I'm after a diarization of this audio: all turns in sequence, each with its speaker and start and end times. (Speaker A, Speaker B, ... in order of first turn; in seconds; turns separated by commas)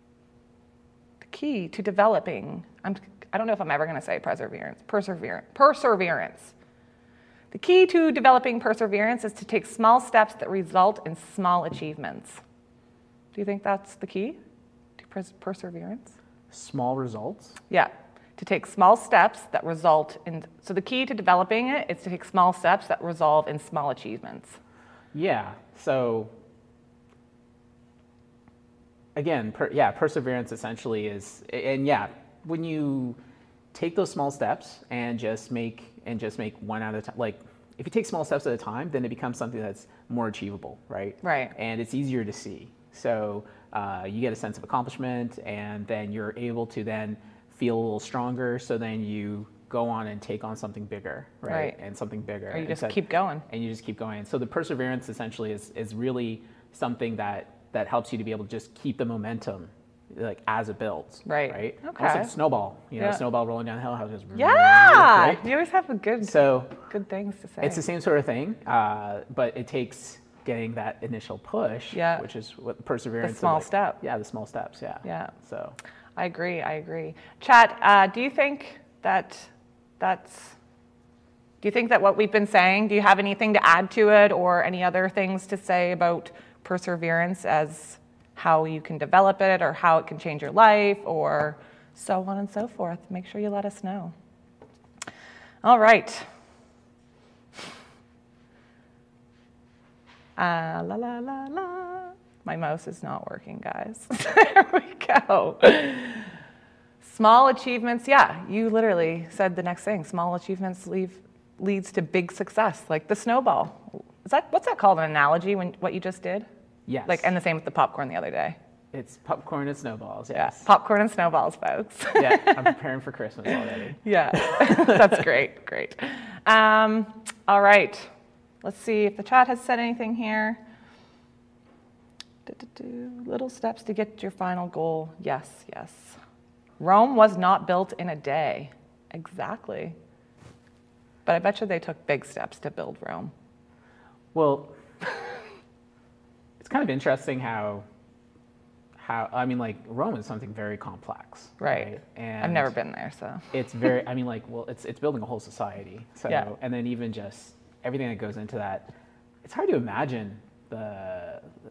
Speaker A: 1.2-6.5, Speaker A: 7.5-12.4, Speaker A: 13.3-14.4, Speaker A: 15.0-16.1, Speaker B: 16.5-17.6, Speaker A: 17.7-24.6, Speaker B: 25.1-26.3, Speaker B: 29.1-33.2, Speaker B: 33.7-53.0, Speaker A: 41.2-41.5, Speaker A: 51.5-51.8, Speaker A: 52.5-53.5, Speaker B: 53.5-65.4, Speaker A: 61.2-62.3, Speaker A: 64.3-67.8, Speaker B: 66.2-66.8, Speaker B: 67.6-75.8, Speaker A: 71.9-72.2, Speaker A: 73.2-74.0, Speaker A: 75.0-75.3, Speaker A: 76.2-80.6, Speaker A: 81.6-94.1, Speaker A: 95.6-96.2, Speaker A: 100.4-106.3, Speaker A: 107.0-116.5, Speaker B: 116.9-117.3, Speaker A: 117.0-118.6, Speaker B: 118.9-120.7, Speaker A: 120.3-122.7, Speaker B: 122.1-125.1, Speaker A: 124.0-128.1, Speaker A: 128.6-130.6, Speaker A: 132.4-136.2, Speaker A: 136.8-139.9, Speaker A: 141.2-143.3, Speaker B: 144.3-144.7, Speaker B: 146.6-147.8, Speaker B: 149.0-152.7, Speaker A: 151.6-153.5, Speaker B: 153.5-158.9, Speaker B: 159.4-161.5